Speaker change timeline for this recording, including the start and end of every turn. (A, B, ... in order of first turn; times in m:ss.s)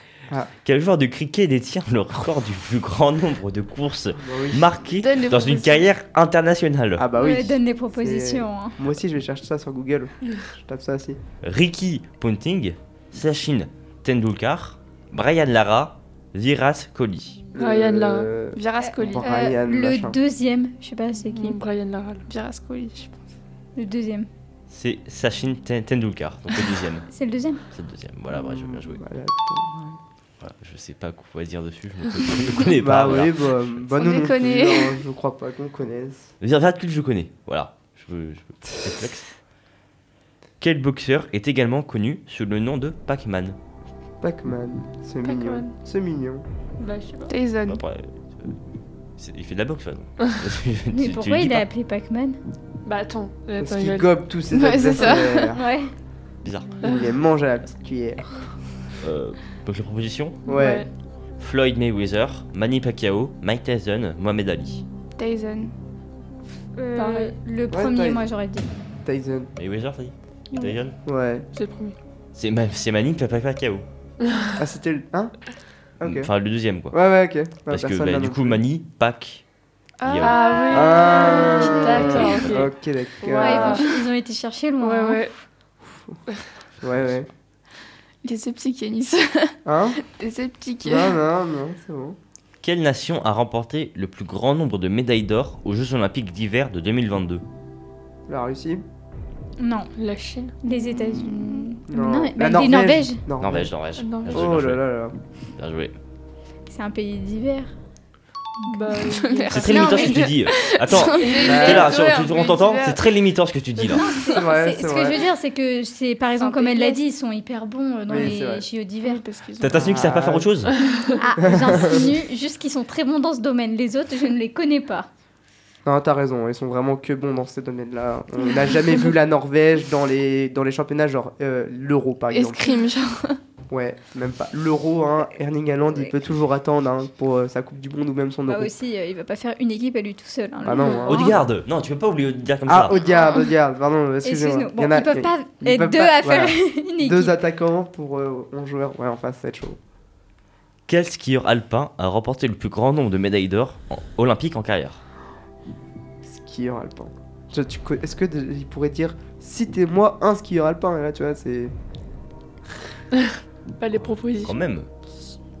0:00.6-0:07.0 A
0:04.2-0:04.8 B
0:05.0-0:05.9 C
0:07.0-0:11.2 B
0:07.2-0:08.8 D
0:11.4-0:17.4 A
0:17.5-0:20.2 B
0:17.6-0:18.3 E
0:18.5-0:19.2 C
0:19.2-0:21.6 D
0:21.2-0:22.3 E
0:22.3-0:23.2 C
0:23.8-0:24.3 D
0:24.7-0:27.1 A
0:27.1-0:27.6 D
0:27.7-0:29.0 A
0:28.3-0:30.0 B
0:30.4-0:33.8 A
0:32.7-0:36.3 B
0:33.9-0:35.0 C
0:36.4-0:39.4 A
0:40.6-0:43.6 A
0:44.2-0:46.4 B
0:45.2-0:45.7 E
0:46.8-0:47.3 E
0:47.3-0:47.8 C
0:47.7-0:48.7 A
0:49.2-0:51.6 A
0:50.9-0:52.4 D
0:52.8-0:54.2 E
0:53.6-0:55.6 B
0:54.5-0:55.6 C
0:55.5-0:55.9 D
0:56.4-0:56.7 A
0:56.8-0:57.1 E
0:56.8-0:58.4 B
0:59.0-1:00.4 A
1:00.4-1:00.9 B
1:00.4-1:00.9 E
1:01.4-1:04.8 A
1:05.2-1:05.7 C
1:06.8-1:08.7 D
1:07.0-1:07.4 E
1:07.7-1:08.2 B
1:09.0-1:09.5 B
1:09.6-1:11.0 A
1:11.0-1:11.5 B
1:11.5-1:12.0 E
1:12.3-1:13.8 A
1:14.2-1:14.5 E
1:14.6-1:15.4 B
1:16.0-1:16.3 B
1:16.0-1:17.0 A
1:16.9-1:18.6 B
1:17.7-1:19.4 A
1:20.0-1:22.0 C
1:20.0-1:20.4 A
1:20.2-1:23.8 E
1:20.7-1:23.8 B
1:23.3-1:25.2 D
1:24.8-1:25.3 E
1:25.8-1:26.2 B
1:26.8-1:27.3 B
1:28.2-1:31.2 C
1:29.6-1:30.0 B
1:30.8-1:32.2 B
1:32.6-1:37.4 A
1:38.3-1:38.8 B
1:39.6-1:39.9 D
1:40.0-1:40.6 E
1:40.6-1:43.2 D
1:41.0-1:41.6 C
1:41.9-1:43.7 B
1:43.4-1:44.9 A
1:44.0-1:44.4 E
1:44.3-1:45.2 B
1:45.5-1:46.0 A
1:46.7-1:47.7 D
1:48.6-1:49.1 D
1:48.6-1:50.0 E
1:49.2-1:53.1 C
1:49.5-1:54.1 A
1:49.6-1:50.3 D
1:51.2-1:51.7 E
1:51.4-1:51.9 B
1:53.9-1:59.2 D
1:54.3-1:55.2 B
1:56.4-1:57.0 C
1:58.1-1:58.6 B
1:59.0-1:59.8 C
1:59.6-2:00.7 A
1:59.7-2:00.7 B
2:00.8-2:01.2 E
2:01.2-2:05.1 D
2:01.4-2:02.1 B
2:05.8-2:12.7 B
2:12.3-2:13.4 C
2:13.7-2:18.7 B
2:18.5-2:21.3 D
2:20.6-2:21.4 B
2:21.1-2:23.0 A
2:22.6-2:29.8 B
2:24.2-2:27.4 D
2:30.9-2:35.0 A
2:36.2-2:41.7 B
2:43.1-2:44.6 E
2:44.0-2:44.9 A